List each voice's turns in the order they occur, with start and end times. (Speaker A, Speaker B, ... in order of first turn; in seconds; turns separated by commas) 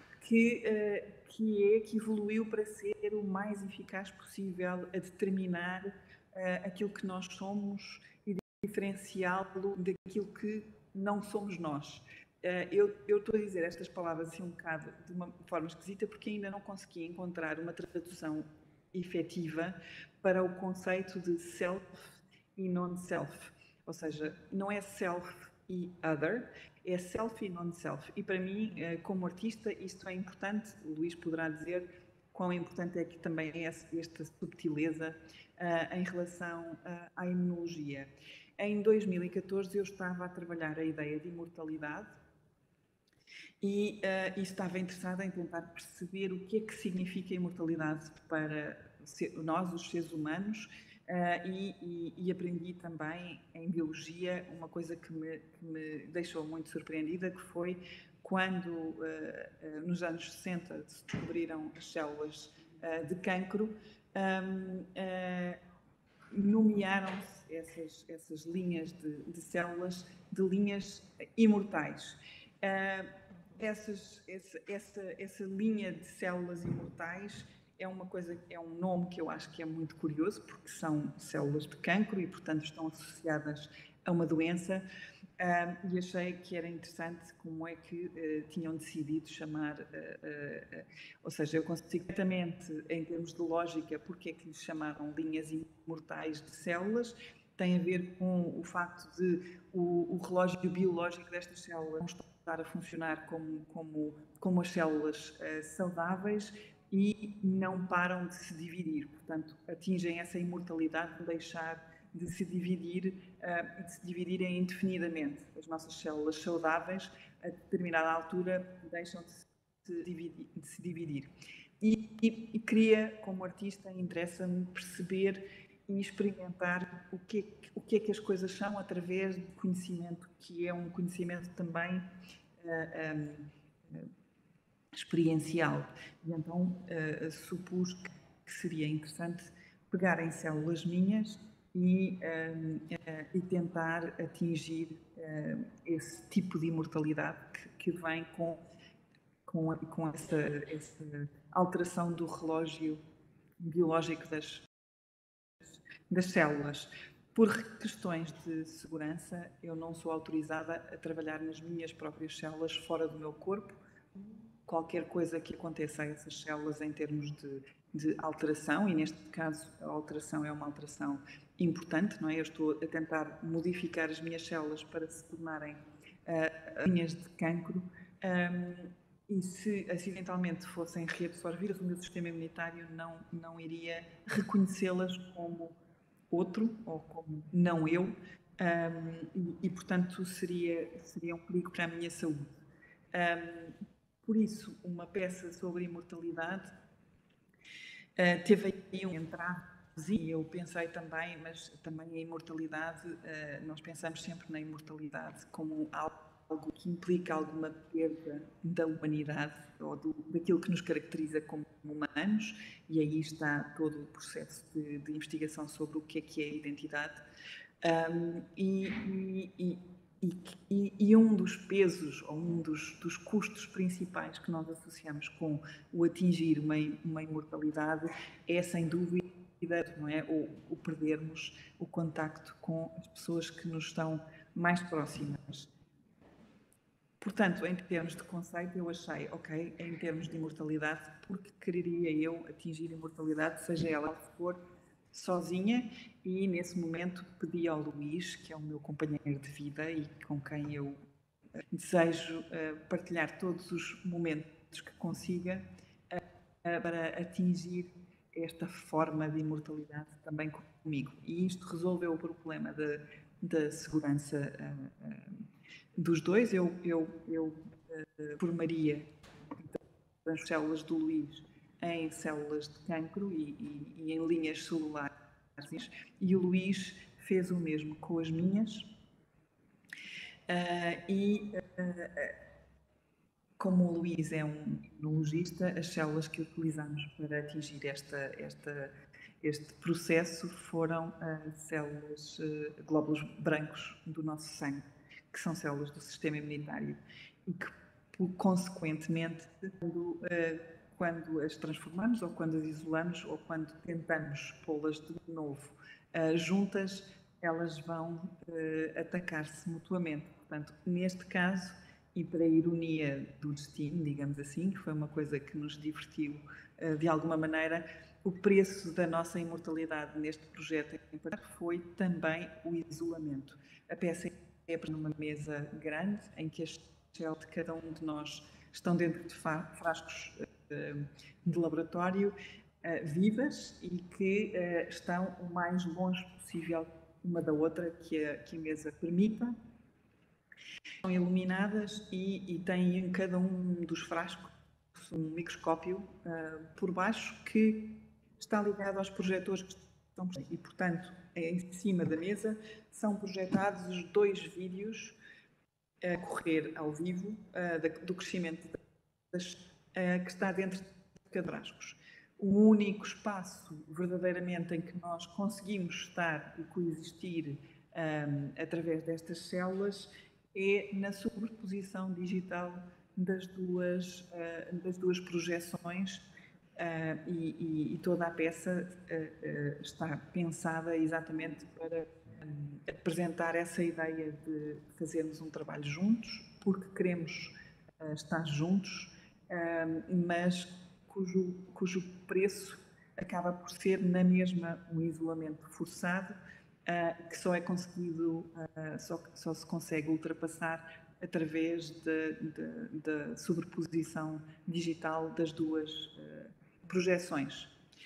Speaker A: 0.2-42.2, Speaker A: 43.6-65.6, Speaker A: 66.3-84.8, Speaker A: 85.4-132.1, Speaker A: 132.6-134.1, Speaker A: 134.9-148.6, Speaker A: 149.5-153.0, Speaker A: 153.6-154.7, Speaker A: 156.1-163.8, Speaker A: 164.7-185.8, Speaker A: 186.3-192.6, Speaker A: 193.1-196.7, Speaker A: 198.2-217.2, Speaker A: 217.8-235.7, Speaker A: 237.2-244.6, Speaker A: 245.1-251.0, Speaker A: 251.7-265.4, Speaker A: 266.0-278.9, Speaker A: 280.5-282.4, Speaker A: 283.6-339.6, Speaker A: 341.0-355.2, Speaker A: 356.0-358.8, Speaker A: 359.3-376.2, Speaker A: 376.8-407.7